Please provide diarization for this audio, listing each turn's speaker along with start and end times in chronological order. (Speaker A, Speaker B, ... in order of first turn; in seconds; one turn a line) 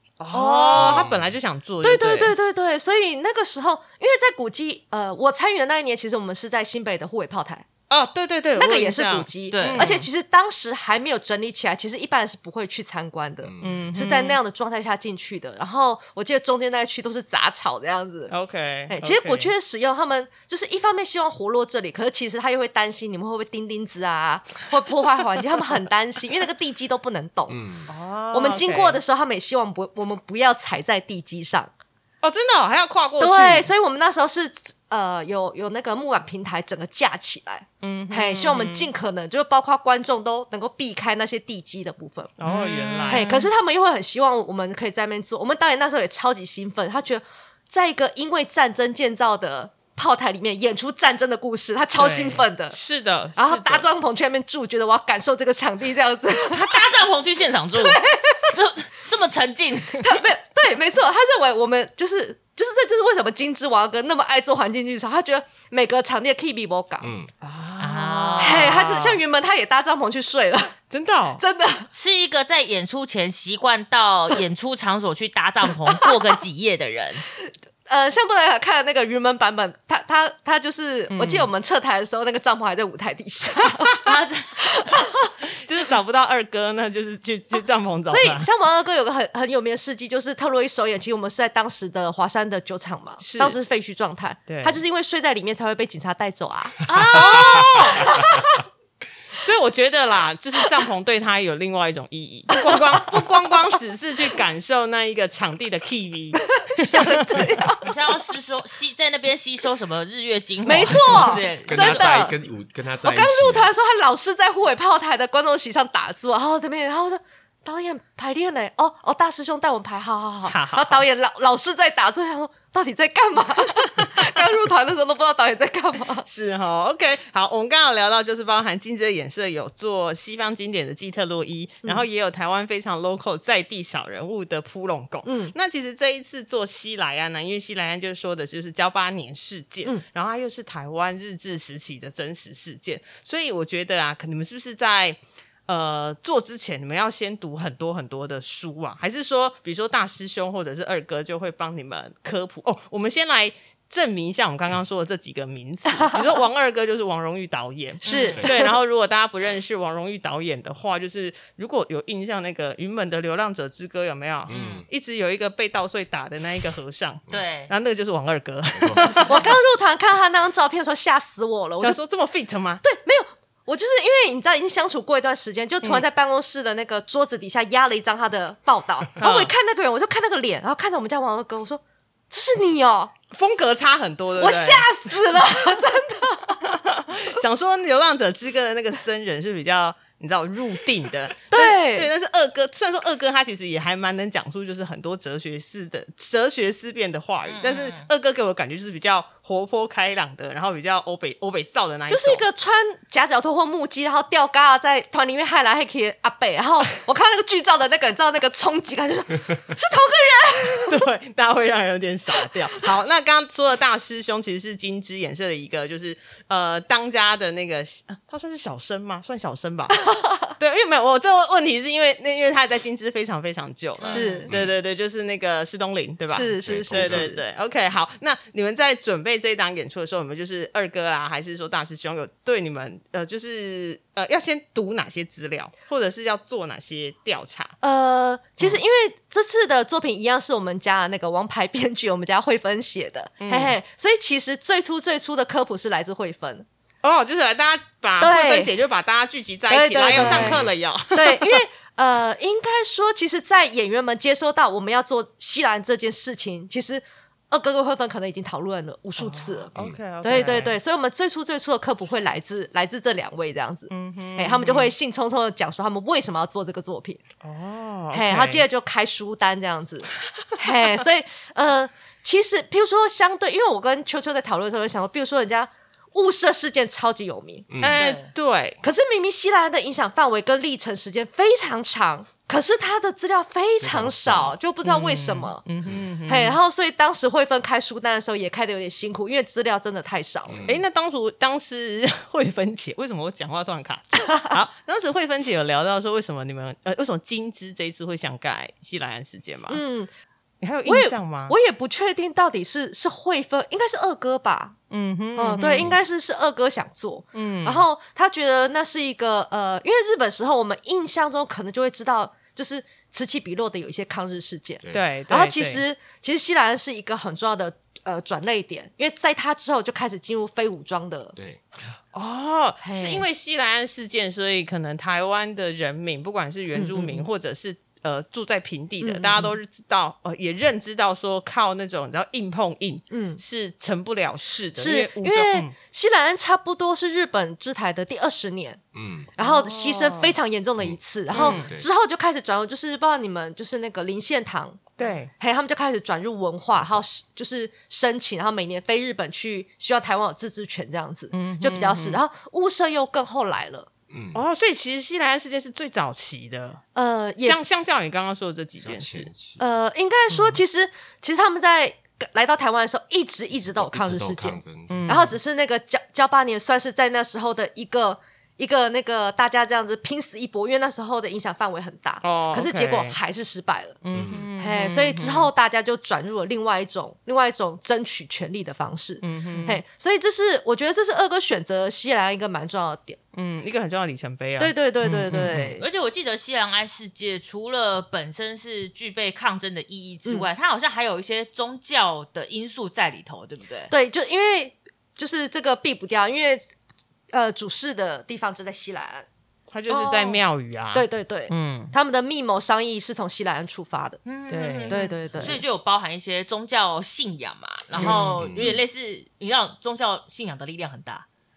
Speaker A: 0.2-2.3
Speaker B: 0.3-1.0
Speaker C: 0.3-0.9
Speaker D: 0.7-1.3
Speaker C: 1.8-7.7
Speaker A: 7.9-10.1
Speaker C: 8.6-18.3
Speaker B: 9.5-10.0
Speaker D: 13.4-13.9
Speaker A: 13.6-14.4
Speaker A: 18.3-19.5
Speaker C: 18.9-27.6
Speaker D: 27.5-27.9
Speaker A: 27.9-29.0
Speaker C: 28.3-31.7
Speaker A: 32.2-33.7
Speaker C: 33.2-42.3
Speaker A: 37.8-38.9
Speaker A: 42.4-43.3
Speaker B: 42.5-43.5
Speaker C: 43.1-52.8
Speaker A: 52.0-53.9
Speaker C: 53.4-56.8
Speaker B: 56.4-60.1
Speaker C: 57.7-58.5
Speaker C: 60.0-67.1
Speaker D: 67.0-67.3
Speaker A: 67.4-69.2
Speaker B: 67.8-68.8
Speaker C: 68.4-70.8
Speaker A: 70.9-71.4
Speaker C: 71.4-71.9
Speaker B: 71.9-77.2
Speaker C: 77.9-85.3
Speaker A: 81.1-81.5
Speaker B: 84.0-84.8
Speaker A: 85.6-88.5
Speaker C: 88.1-96.8
Speaker A: 93.2-93.6
Speaker A: 94.5-94.8
Speaker B: 96.9-98.1
Speaker A: 97.1-98.2
Speaker C: 98.0-98.5
Speaker A: 99.4-107.6
Speaker C: 106.4-107.9
Speaker B: 107.8-112.2
Speaker C: 110.6-112.3
Speaker D: 110.8-113.7
Speaker C: 113.0-126.3
Speaker A: 120.5-121.0
Speaker A: 126.2-169.5
Speaker C: 135.2-135.5
Speaker C: 158.0-158.7
Speaker B: 158.1-158.4
Speaker D: 164.5-164.8
Speaker B: 164.5-164.8
Speaker B: 167.3-167.7
Speaker D: 168.8-169.2
Speaker C: 169.2-172.0
Speaker A: 171.8-172.8
Speaker C: 172.8-183.1
Speaker A: 179.2-179.5
Speaker A: 183.3-184.9
Speaker C: 184.4-186.6
Speaker A: 186.6-202.4
Speaker C: 191.5-192.1
Speaker B: 197.5-198.1
Speaker C: 202.1-211.0
Speaker A: 210.9-237.8
Speaker C: 220.0-220.5
Speaker B: 224.0-224.4
Speaker C: 224.1-224.5
Speaker C: 226.3-227.4
Speaker D: 226.6-227.3
Speaker C: 237.8-246.7
Speaker A: 243.4-243.8
Speaker A: 247.0-251.6
Speaker C: 248.2-248.7
Speaker C: 249.7-267.2
Speaker D: 250.1-250.7
Speaker A: 259.2-260.8
Speaker A: 263.9-264.9
Speaker A: 267.4-268.6
Speaker C: 268.1-277.7
Speaker D: 277.7-278.0
Speaker A: 277.8-278.8
Speaker B: 278.0-278.3
Speaker C: 278.8-285.6
Speaker D: 283.8-284.6
Speaker A: 284.8-286.6
Speaker C: 286.2-290.6
Speaker D: 290.5-290.9
Speaker A: 290.6-299.8
Speaker C: 294.2-294.5
Speaker C: 299.7-300.1
Speaker A: 300.6-301.5
Speaker C: 300.9-304.8
Speaker A: 304.9-305.9
Speaker C: 305.4-321.4
Speaker A: 307.3-307.8
Speaker A: 314.9-315.8
Speaker D: 321.4-321.6
Speaker A: 322.1-335.7
Speaker C: 322.8-323.2
Speaker C: 326.7-327.2
Speaker C: 329.0-329.5
Speaker C: 333.1-333.4
Speaker C: 334.8-338.8
Speaker D: 338.9-339.3
Speaker C: 339.4-353.9
Speaker A: 339.4-340.4
Speaker D: 340.8-341.9
Speaker A: 341.3-341.7
Speaker A: 345.0-345.3
Speaker A: 351.3-352.2
Speaker D: 354.1-354.4
Speaker A: 354.3-356.8
Speaker C: 356.9-357.6
Speaker A: 357.4-359.3
Speaker D: 358.8-359.6
Speaker C: 359.6-374.0
Speaker D: 363.6-365.1
Speaker A: 364.9-365.3
Speaker A: 372.2-373.2
Speaker A: 374.0-375.5
Speaker D: 374.1-374.5
Speaker C: 374.6-383.2
Speaker A: 379.2-379.8
Speaker A: 383.3-385.7
Speaker C: 384.6-385.9
Speaker B: 385.8-393.9
Speaker C: 393.9-396.6
Speaker C: 397.3-399.3
Speaker A: 399.7-401.9
Speaker C: 399.9-400.4
Speaker C: 400.9-404.2
Speaker B: 404.2-411.3
Speaker A: 404.5-405.6
Speaker C: 404.9-405.6
Speaker A: 407.9-408.7
Speaker D: 408.1-408.8